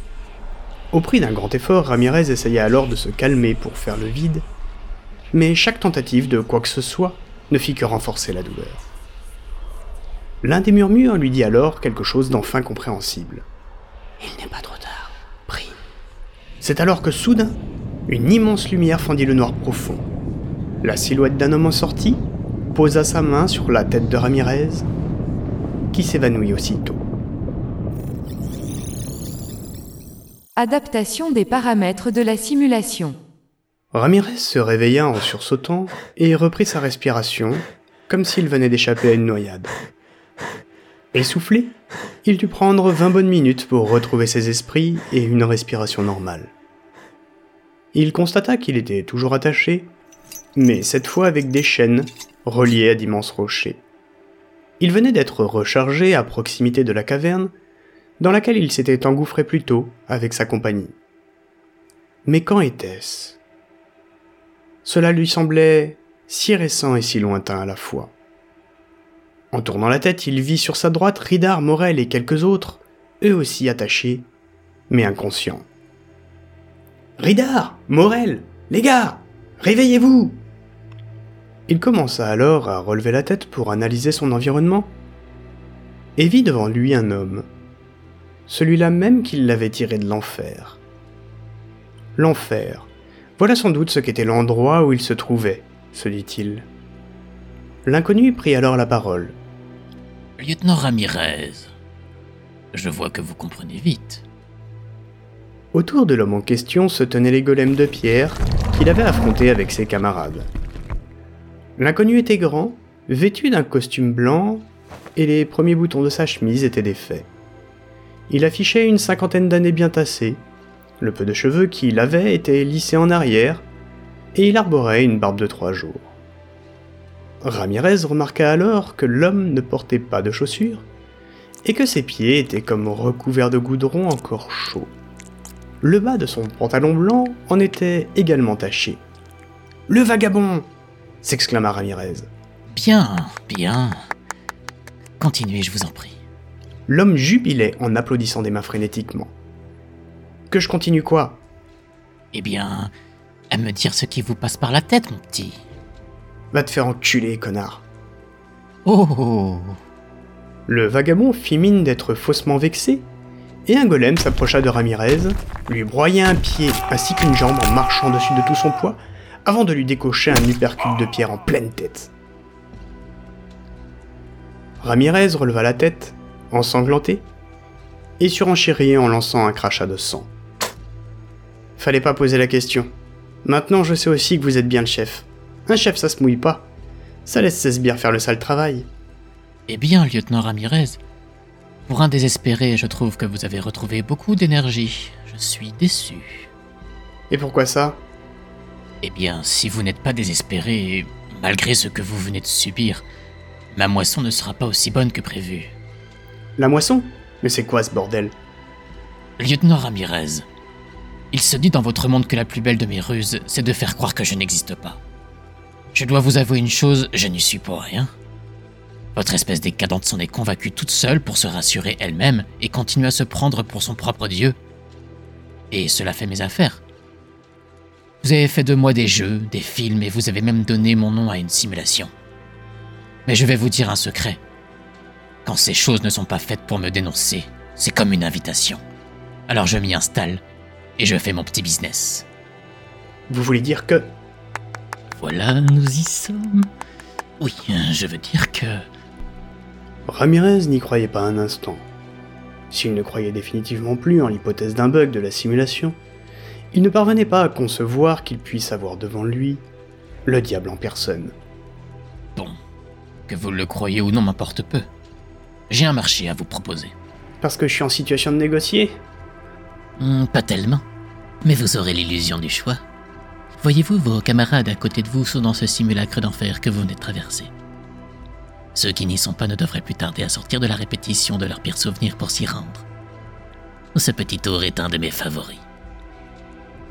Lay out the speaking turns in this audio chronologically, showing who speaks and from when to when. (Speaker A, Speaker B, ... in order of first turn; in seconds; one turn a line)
Speaker A: 0.9-4.5
Speaker A: 5.3-8.8
Speaker A: 10.4-13.5
Speaker A: 14.2-15.8
Speaker A: 16.6-20.1
Speaker A: 20.8-24.9
Speaker A: 25.9-27.1
Speaker B: 30.6-33.1
Speaker A: 33.9-39.7
Speaker A: 41.1-46.5
Speaker A: 47.9-49.9
Speaker A: 50.5-53.9
Speaker A: 54.8-57.5
Speaker A: 58.2-61.0
Speaker A: 62.2-63.4
Speaker A: 64.8-68.2
Speaker A: 69.5-74.3
Speaker A: 74.9-75.7
Speaker A: 77.2-80.4
Speaker A: 81.7-85.0
Speaker A: 86.2-87.5
Speaker A: 88.5-90.8
Speaker A: 92.2-96.7
Speaker A: 97.8-99.4
Speaker C: 100.4-101.7
Speaker C: 102.7-104.2
Speaker A: 105.7-110.5
Speaker A: 111.8-117.3
Speaker A: 118.3-120.5
Speaker A: 121.0-123.7
Speaker A: 124.3-126.2
Speaker A: 127.4-130.9
Speaker A: 131.7-134.9
Speaker A: 135.8-139.1
Speaker A: 139.9-140.7
Speaker A: 141.2-142.3
Speaker C: 142.7-143.9
Speaker C: 145.2-146.2
Speaker A: 146.9-149.3
Speaker A: 150.5-151.4
Speaker C: 152.3-152.9
Speaker C: 153.5-155.6
Speaker A: 156.5-157.9
Speaker C: 158.9-159.8
Speaker A: 160.7-163.1
Speaker A: 163.7-172.1
Speaker A: 174.8-177.3
Speaker A: 178.2-180.3
Speaker A: 181.8-182.9
Speaker A: 183.4-186.7
Speaker A: 187.2-188.9
Speaker C: 189.7-191.0
Speaker C: 191.9-196.5
Speaker A: 197.3-198.0
Speaker C: 199.0-203.1
Speaker C: 203.7-205.8
Speaker A: 206.6-208.3
Speaker C: 209.4-210.5
Speaker C: 211.3-215.0
Speaker C: 215.9-218.1
Speaker C: 219.2-224.6
Speaker C: 225.7-226.8
Speaker C: 228.2-232.1
Speaker C: 233.3-234.4
Speaker C: 235.4-238.8
Speaker C: 239.5-240.4
Speaker C: 241.0-242.3
Speaker A: 243.3-244.1
Speaker C: 245.2-246.7
Speaker C: 247.4-248.8
Speaker A: 250.1-251.9
Speaker A: 252.7-256.0
Speaker A: 256.7-259.6
Speaker A: 260.3-261.4
Speaker C: 263.3-264.9
Speaker C: 265.7-266.9
Speaker A: 267.4-269.0
Speaker C: 270.0-270.8
Speaker C: 271.4-272.8
Speaker C: 273.6-277.5
Speaker C: 278.8-282.9
Speaker C: 283.9-285.6